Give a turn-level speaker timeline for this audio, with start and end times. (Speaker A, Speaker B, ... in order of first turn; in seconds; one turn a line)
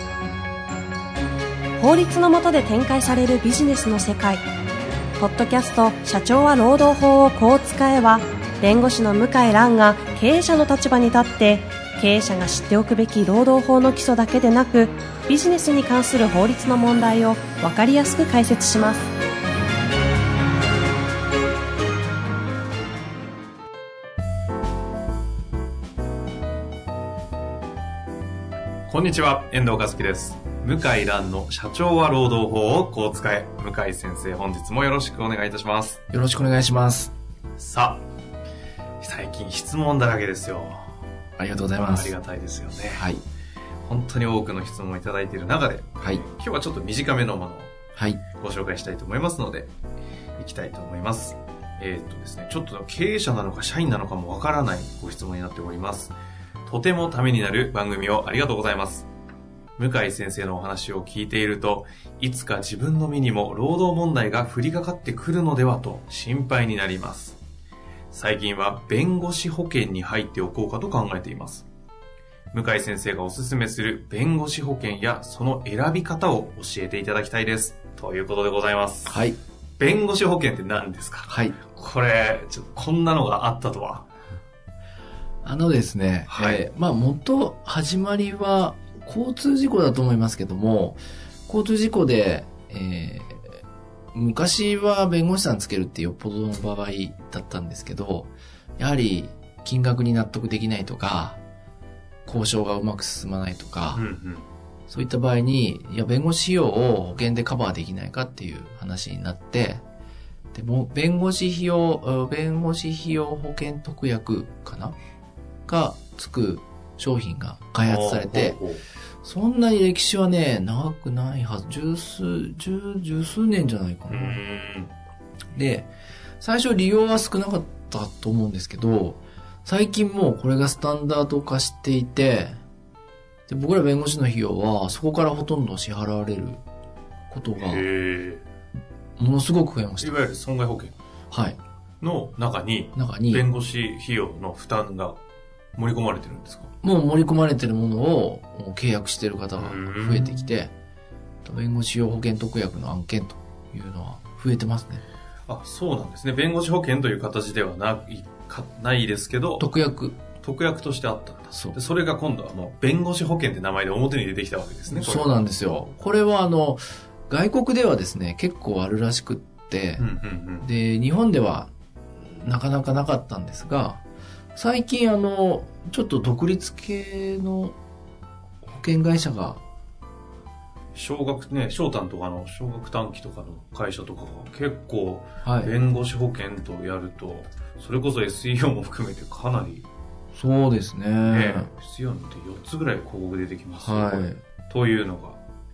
Speaker A: 1.8-4.4
Speaker A: 5.2-19.1
Speaker B: 28.9-36.0
Speaker C: 36.1-37.1
Speaker B: 37.6-38.0
Speaker B: 39.0-40.9
Speaker C: 41.4-42.2
Speaker B: 41.8-43.1
Speaker C: 42.9-43.2
Speaker B: 43.8-47.7
Speaker C: 48.0-48.2
Speaker B: 48.4-49.7
Speaker B: 50.4-56.1
Speaker B: 56.7-59.1
Speaker B: 59.8-67.4
Speaker B: 68.1-71.7
Speaker B: 72.5-79.2
Speaker C: 79.1-79.4
Speaker B: 79.8-84.1
Speaker C: 81.3-81.6
Speaker C: 85.4-93.6
Speaker B: 86.3-86.7
Speaker C: 94.1-101.4
Speaker C: 102.3-104.0
Speaker B: 103.9-104.5
Speaker C: 104.9-109.8
Speaker C: 110.5-115.0
Speaker C: 115.7-118.6
Speaker B: 117.8-118.8
Speaker C: 119.2-124.4
Speaker B: 124.1-124.9
Speaker C: 125.5-132.6
Speaker C: 133.5-136.6
Speaker C: 137.3-137.8
Speaker B: 137.6-138.4
Speaker C: 139.2-140.2
Speaker B: 140.0-141.0
Speaker C: 141.3-141.6
Speaker B: 142.0-145.2
Speaker C: 143.0-143.4
Speaker B: 145.8-146.7
Speaker C: 146.8-150.7
Speaker B: 149.6-150.5
Speaker C: 151.4-155.0
Speaker B: 155.5-159.7
Speaker C: 159.6-160.2
Speaker B: 160.4-165.5
Speaker C: 164.9-170.1
Speaker B: 170.0-170.7
Speaker C: 170.6-171.7
Speaker C: 172.2-174.0
Speaker C: 174.6-177.8
Speaker C: 178.7-179.6
Speaker B: 180.9-189.9
Speaker C: 185.4-185.8
Speaker C: 190.3-191.7
Speaker B: 191.2-195.4
Speaker C: 193.7-194.4